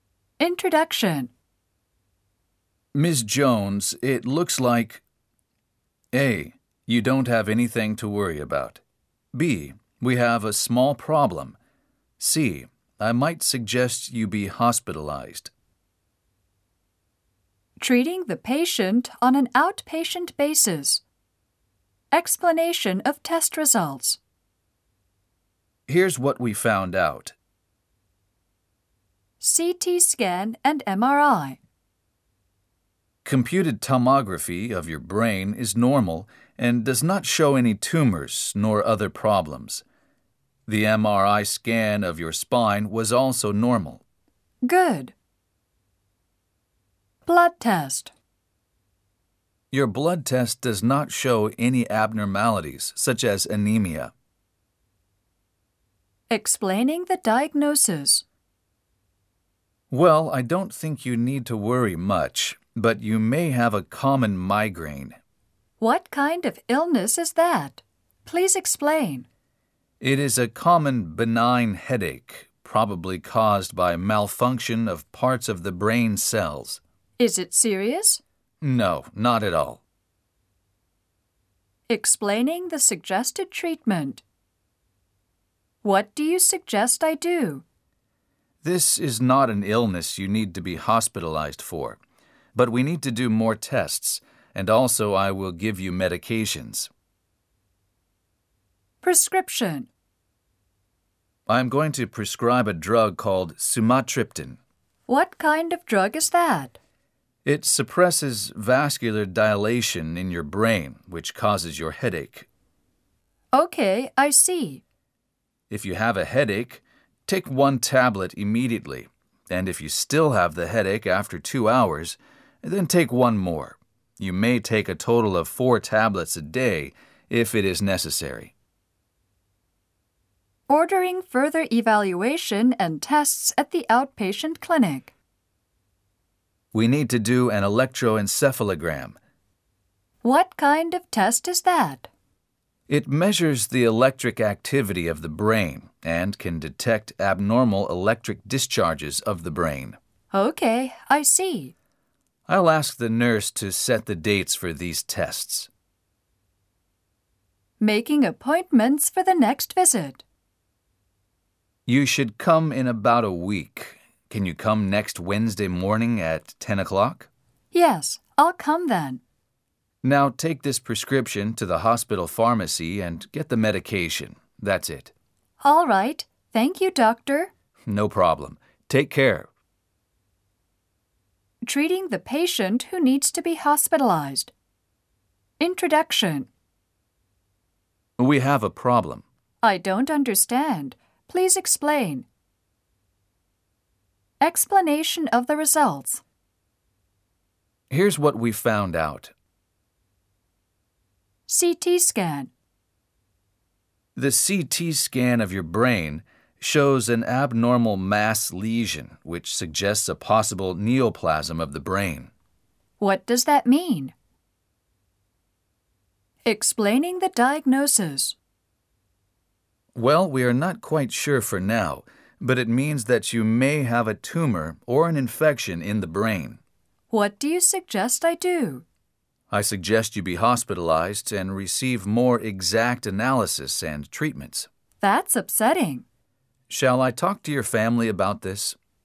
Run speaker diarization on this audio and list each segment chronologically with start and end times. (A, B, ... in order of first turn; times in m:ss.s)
0:00.4-0:01.3 A
0:02.9-0:05.0 B
0:06.1-0:08.8 B
0:09.3-0:11.6 B
0:12.2-0:15.5 B
0:17.8-0:21.0 A
0:22.1-0:24.2 A
0:25.9-0:27.3 B
0:29.4-0:31.6 A
0:33.2-0:39.8 B
0:40.7-0:44.0 B
0:44.6-0:45.1 A
0:47.2-0:48.1 A
0:49.7-0:54.1 B
0:56.3-0:58.2 A
0:59.9-1:05.2 B
1:05.8-1:09.3 A
1:10.0-1:16.8 B
1:17.2-1:18.2 A
1:18.6-1:19.8 B
1:21.9-1:24.2 A
1:25.8-1:27.6 A
1:28.6-1:32.0 B
1:32.5-1:36.9 B
1:39.0-1:39.9 A
1:41.5-1:44.6 B
1:45.1-1:46.8 A
1:47.4-1:52.5 B
1:53.5-1:54.8 A
1:55.7-2:08.5 B
2:10.7-2:15.1 A
2:16.7-2:19.2 B
2:20.2-2:22.1 A
2:22.9-2:30.0 B
2:30.3-2:31.7 A
2:32.5-2:35.7 B
2:37.8-2:40.2 A
2:41.8-2:47.3 B
2:47.7-2:49.2 A
2:50.0-2:55.1 B
2:55.6-2:57.5 A
2:57.9-2:59.5 B
3:01.6-3:04.5 A
3:05.6-3:06.5 A
3:08.2-3:09.2 B
3:09.6-3:12.3 A
3:14.4-3:16.2 A
3:17.9-3:19.3 B
3:21.5-3:22.5 A
3:24.2-3:32.3 B
3:33.0-3:34.1 A
3:36.4-3:38.4 A
3:39.9-3:46.6 B
3:47.1-3:48.8 A
3:49.5-3:54.7 B
3:55.0-3:56.0 A
3:56.7-3:58.8 B